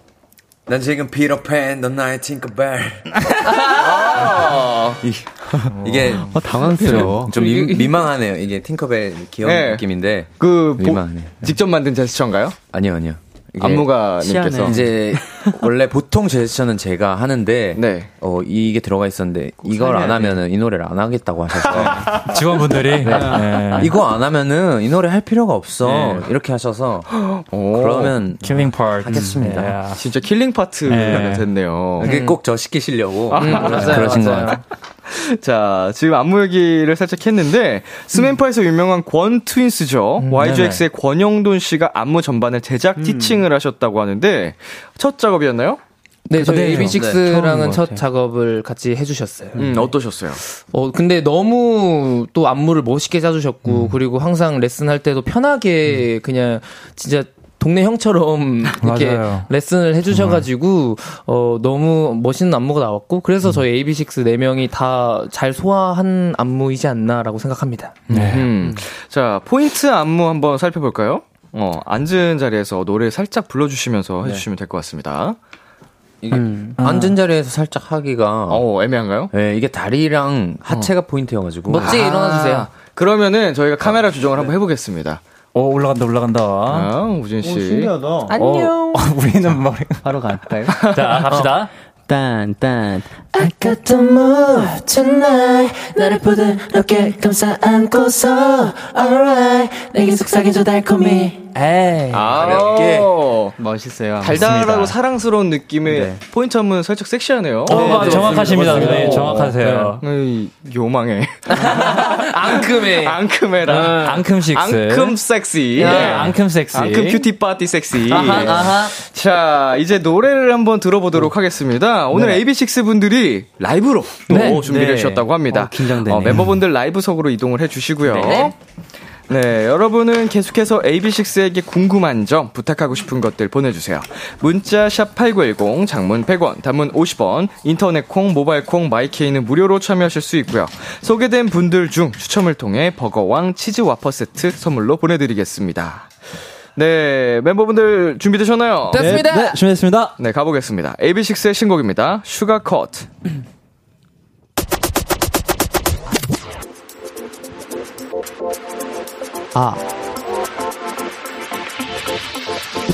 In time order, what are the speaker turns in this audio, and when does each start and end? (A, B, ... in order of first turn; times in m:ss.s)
0:00.7-0:03.4 A
0:03.6-0:05.0 B
0:04.1-0:11.5 A
0:05.5-0:07.3 C
0:07.3-0:08.0 D
0:09.4-0:09.8 B
0:10.4-0:12.6 B
0:12.7-0:14.0 A
0:13.6-0:14.8 B
0:14.2-0:15.6 C
0:14.6-0:22.2 A
0:17.7-0:18.1 B
0:19.6-0:20.4 C
0:21.7-0:22.1 B
0:22.1-0:23.9 E
0:23.0-0:29.8 A
0:23.0-0:23.7 C
0:25.8-0:26.2 B
0:27.3-0:28.2 B
0:28.4-0:30.0 E
0:30.0-0:32.1 B
0:30.8-0:31.5 E
0:32.0-0:34.6 A
0:32.0-0:32.4 D
0:33.3-0:34.4 B
0:33.3-0:34.6 D
0:35.1-0:45.8 B
0:40.4-0:40.8 E
0:43.0-0:43.4 C
0:46.3-0:49.6 D
0:46.4-0:47.0 E
0:46.8-0:47.2 A
0:47.0-0:48.0 C
0:49.6-0:50.4 B
0:50.7-1:08.0 D
0:53.7-0:53.9 E
0:58.8-0:59.5 E
1:00.1-1:00.4 E
1:08.1-1:08.5 E
1:08.1-1:15.4 B
1:16.2-1:18.7 A
1:16.3-1:16.8 C
1:16.8-1:17.1 E
1:18.5-1:19.3 B
1:19.3-1:22.0 A
1:21.7-1:22.7 D
1:21.7-1:25.2 B
1:25.5-1:26.9 E
1:26.7-1:27.9 B
1:27.4-1:28.3 C
1:28.3-1:29.0 D
1:28.4-1:30.1 E
1:30.0-1:30.8 C
1:30.6-1:31.7 E
1:30.8-1:31.3 B
1:31.3-1:31.5 D
1:32.1-1:33.1 C
1:33.3-1:41.5 F
1:41.5-1:42.2 D
1:42.1-1:43.5 B
1:42.3-1:43.1 A
1:43.6-1:44.5 C
1:44.2-2:08.5 B
1:44.3-1:45.0 E
1:45.9-1:46.2 C
1:47.6-1:50.0 E
1:47.7-1:49.4 D
1:47.7-1:49.5 C
1:51.5-1:54.2 D
1:53.7-1:55.2 E
1:55.8-1:56.4 D
1:55.8-1:57.3 E
1:58.0-1:59.0 D
2:02.1-2:02.4 C
2:04.3-2:06.5 C
2:04.3-2:04.6 E
2:08.2-2:08.5 D
2:09.3-2:26.1 B
2:26.8-2:29.2 B
2:28.9-2:29.6 D
2:28.9-2:30.1 E
2:30.2-2:33.1 B